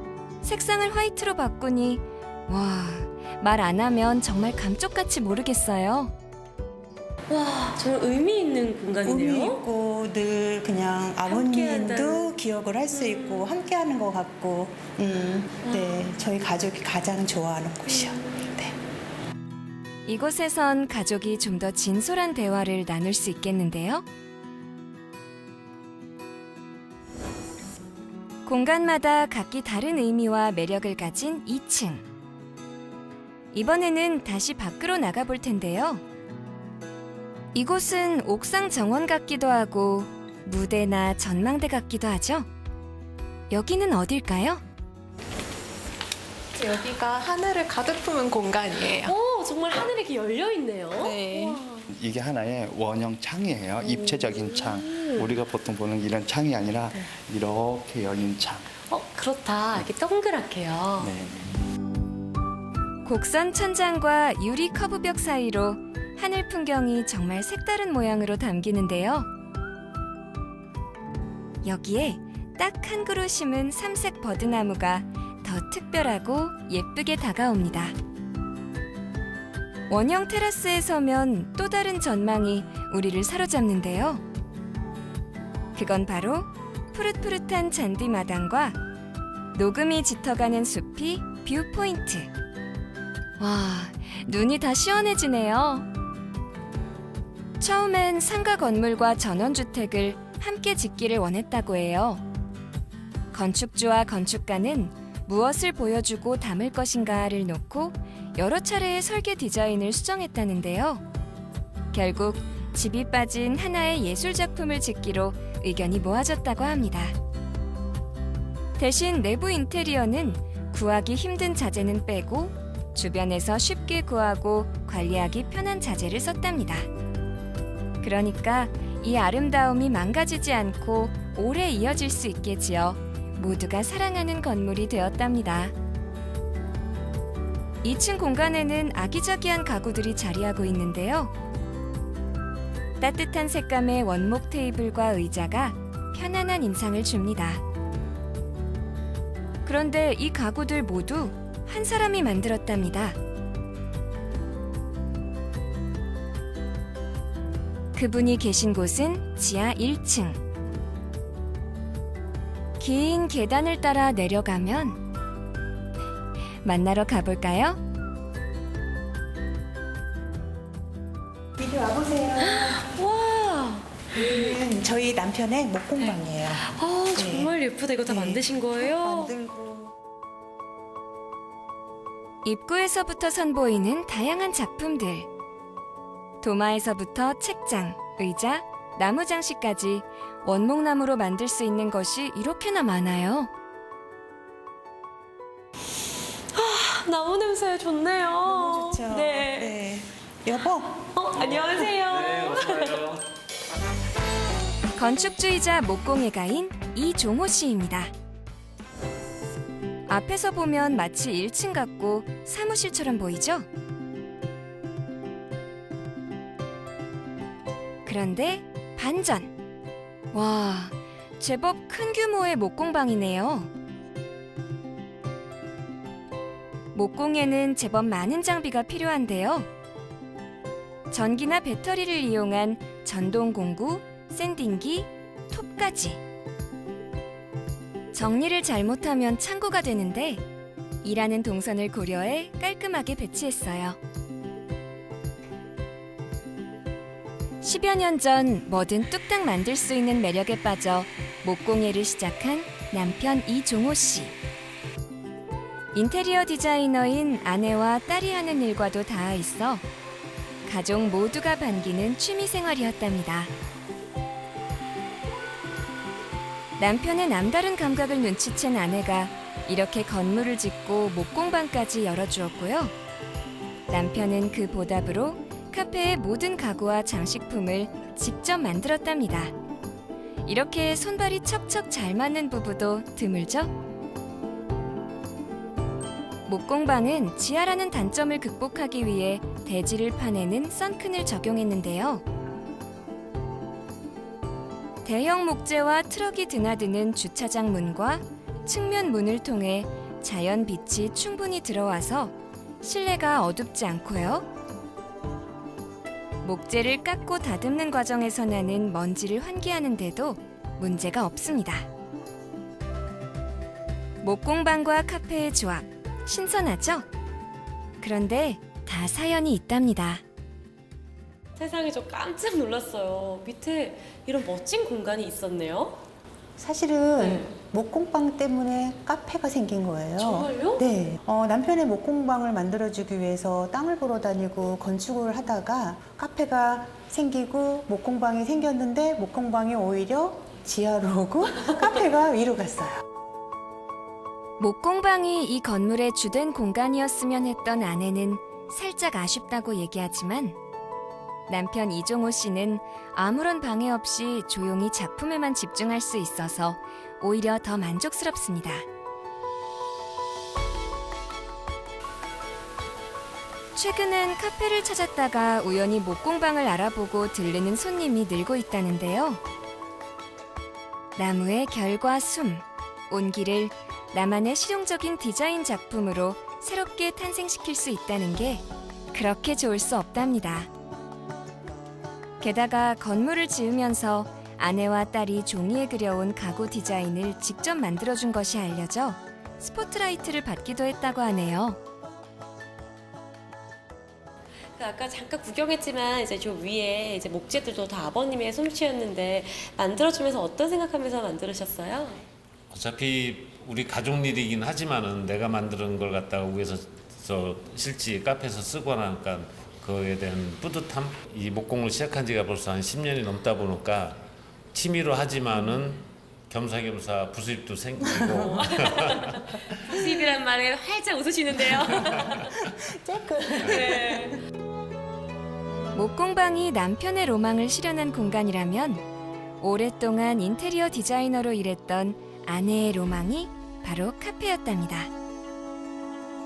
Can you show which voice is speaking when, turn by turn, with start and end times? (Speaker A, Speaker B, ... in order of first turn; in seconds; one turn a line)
Speaker A: 0.4-6.1
Speaker B: 7.3-9.7
Speaker C: 9.0-18.8
Speaker B: 11.3-12.4
Speaker B: 12.9-13.5
Speaker B: 15.7-16.0
Speaker A: 20.1-24.0
Speaker A: 28.4-32.0
Speaker A: 33.5-36.0
Speaker A: 37.5-42.5
Speaker A: 43.5-44.6
Speaker D: 46.5-49.2
Speaker B: 49.0-51.8
Speaker D: 50.9-51.6
Speaker E: 51.9-58.7
Speaker B: 53.8-55.3
Speaker B: 58.9-61.1
Speaker E: 61.0-61.5
Speaker A: 63.0-69.3
Speaker A: 71.6-78.0
Speaker A: 79.9-84.2
Speaker A: 85.8-88.8
Speaker A: 89.5-92.3
Speaker A: 93.4-95.9
Speaker A: 97.6-102.2
Speaker A: 103.3-111.0
Speaker A: 111.9-117.2
Speaker A: 118.8-126.9
Speaker A: 128.0-135.7
Speaker A: 137.8-141.3
Speaker A: 143.0-147.6
Speaker A: 149.7-153.2
Speaker A: 157.9-160.4
Speaker A: 162.8-165.0
Speaker A: 166.6-167.8
Speaker C: 171.6-172.9
Speaker B: 172.4-174.4
Speaker C: 174.1-179.9
Speaker B: 176.0-179.3
Speaker A: 182.4-185.3
Speaker A: 186.4-193.5
Speaker B: 196.5-199.8
Speaker C: 198.4-202.0
Speaker B: 201.2-203.1
Speaker A: 205.0-208.1
Speaker A: 210.1-213.7
Speaker A: 218.1-219.5
Speaker A: 220.3-223.7
Speaker A: 226.9-229.7
Speaker A: 231.1-236.2
Speaker A: 238.1-240.4
Speaker A: 241.0-244.0
Speaker A: 247.6-254.3
Speaker A: 255.9-259.9
Speaker A: 260.6-263.5
Speaker A: 266.8-272.9
Speaker A: 273.9-279.5
Speaker A: 280.4-283.7
Speaker A: 286.5-292.2
Speaker A: 295.1-304.5
Speaker A: 306.4-311.9
Speaker A: 314.2-317.1
Speaker A: 318.0-320.2
Speaker B: 321.6-326.0
Speaker C: 326.6-343.0
Speaker B: 327.2-327.6
Speaker B: 330.2-330.9
Speaker A: 344.6-350.6
Speaker A: 351.5-358.9
Speaker A: 363.8-369.4
Speaker A: 371.2-380.7
Speaker A: 382.4-391.8
Speaker B: 394.8-402.2
Speaker F: 402.7-414.2
Speaker F: 414.7-419.4
Speaker C: 418.0-418.4
Speaker B: 418.5-422.4
Speaker C: 422.1-424.3
Speaker B: 423.6-424.3
Speaker A: 425.9-429.0
Speaker A: 429.6-435.1